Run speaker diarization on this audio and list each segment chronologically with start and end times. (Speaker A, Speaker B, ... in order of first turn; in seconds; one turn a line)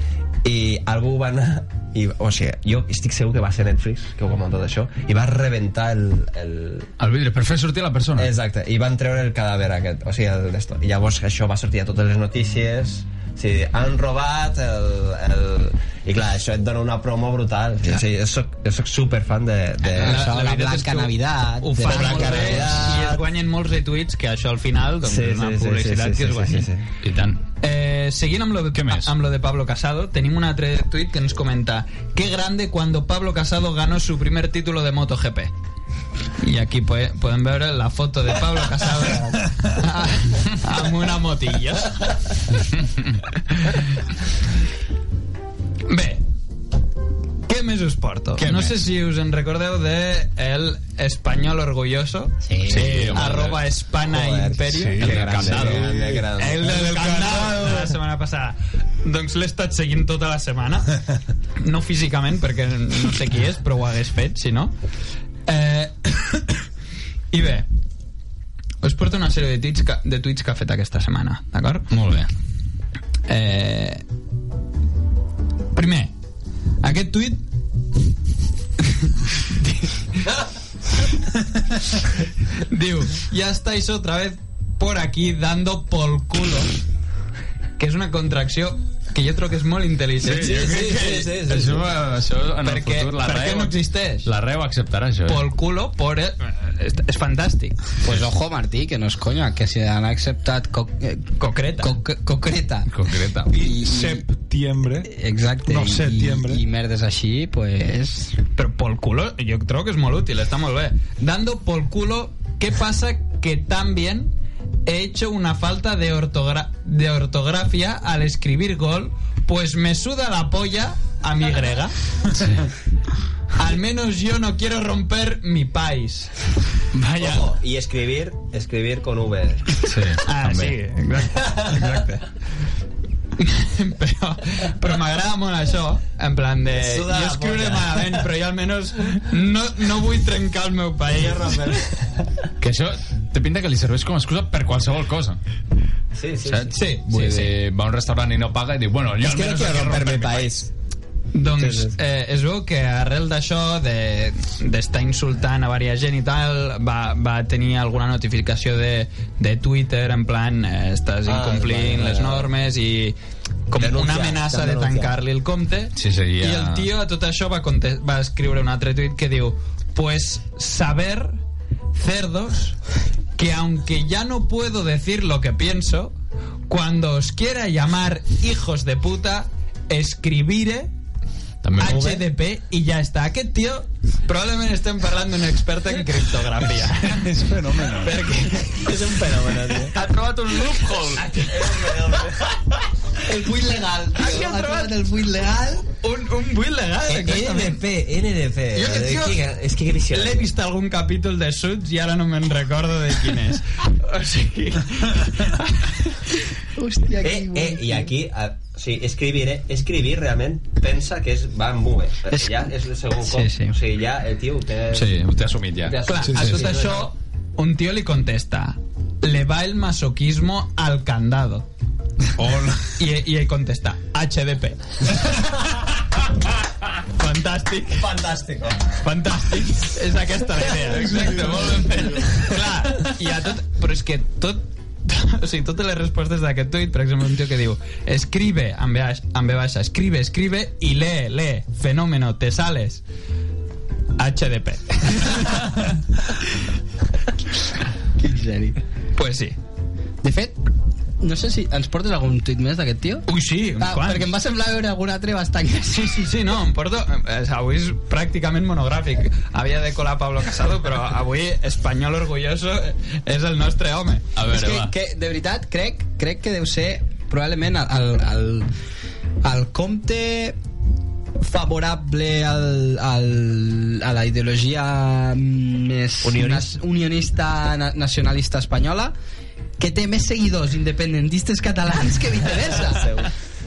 Speaker A: 0.4-6.9
Speaker B: 7.0-8.3
Speaker A: 8.2-20.2
Speaker C: 19.8-23.1
Speaker D: 19.9-26.7
Speaker A: 21.8-23.2
Speaker A: 25.0-26.8
Speaker B: 27.0-27.4
Speaker D: 27.6-35.5
Speaker B: 28.7-29.1
Speaker D: 36.4-42.4
Speaker B: 42.7-43.1
Speaker D: 43.5-43.8
Speaker D: 45.9-46.2
Speaker D: 47.5-55.0
Speaker B: 48.4-48.8
Speaker C: 52.4-53.1
Speaker B: 52.6-53.6
Speaker A: 54.0-57.1
Speaker E: 54.7-57.9
Speaker B: 55.0-55.9
Speaker D: 56.4-60.9
Speaker D: 61.6-64.7
Speaker D: 65.5-66.6
Speaker D: 67.3-67.7
Speaker D: 68.8-71.9
Speaker B: 71.9-72.3
Speaker D: 73.3-74.0
Speaker D: 75.7-76.1
Speaker D: 76.8-77.4
Speaker D: 79.0-80.3
Speaker D: 82.6-86.8
Speaker D: 87.8-90.6
Speaker B: 90.2-95.4
Speaker A: 90.2-91.9
Speaker D: 92.6-94.3
Speaker D: 95.2-97.8
Speaker C: 98.0-102.9
Speaker D: 101.4-101.9
Speaker B: 102.9-103.5
Speaker E: 103.5-105.1
Speaker C: 103.5-104.2
Speaker C: 105.0-108.4
Speaker E: 105.7-106.6
Speaker D: 108.5-114.3
Speaker D: 114.8-122.0
Speaker B: 122.3-122.6
Speaker D: 123.5-126.3
Speaker B: 127.0-127.4
Speaker A: 127.2-129.8
Speaker B: 129.8-130.7
Speaker D: 130.2-131.8
Speaker A: 131.5-131.8
Speaker B: 131.8-132.2
Speaker D: 133.4-141.8
Speaker A: 136.7-138.2
Speaker A: 141.1-142.3
Speaker B: 142.6-145.4
Speaker A: 146.1-146.7
Speaker B: 146.4-150.6
Speaker D: 146.7-147.5
Speaker A: 149.2-150.7
Speaker D: 151.3-163.2
Speaker A: 151.6-151.9
Speaker A: 161.2-162.5
Speaker D: 163.7-171.4
Speaker A: 163.7-165.1
Speaker B: 165.9-166.9
Speaker D: 171.9-172.8
Speaker D: 173.3-176.1
Speaker D: 176.7-180.9
Speaker B: 181.6-182.2
Speaker D: 181.8-187.3
Speaker E: 187.0-188.3
Speaker D: 187.8-189.0
Speaker A: 188.7-189.9
Speaker B: 189.9-191.3
Speaker D: 189.9-191.9
Speaker A: 191.2-192.5
Speaker C: 193.2-195.8
Speaker D: 194.2-194.9
Speaker D: 195.9-197.8
Speaker A: 197.1-200.5
Speaker D: 198.7-199.4
Speaker D: 200.1-206.2
Speaker C: 206.7-208.1
Speaker A: 207.2-215.2
Speaker C: 212.3-213.8
Speaker B: 214.9-216.5
Speaker A: 215.8-217.1
Speaker D: 216.1-221.7
Speaker E: 216.3-216.6
Speaker E: 222.4-222.9
Speaker D: 223.0-224.8
Speaker D: 227.1-228.0
Speaker A: 228.0-229.0
Speaker D: 229.0-243.0
Speaker B: 230.7-232.3
Speaker E: 231.1-231.9
Speaker D: 244.2-245.9
Speaker C: 248.2-248.8
Speaker D: 249.2-249.6
Speaker C: 250.2-250.6
Speaker C: 251.2-256.2
Speaker D: 253.3-254.3
Speaker D: 255.9-264.3
Speaker B: 264.3-264.9
Speaker C: 264.5-268.7
Speaker C: 269.4-270.6
Speaker C: 271.4-279.1
Speaker A: 276.2-276.7
Speaker C: 279.8-283.2
Speaker A: 282.9-283.3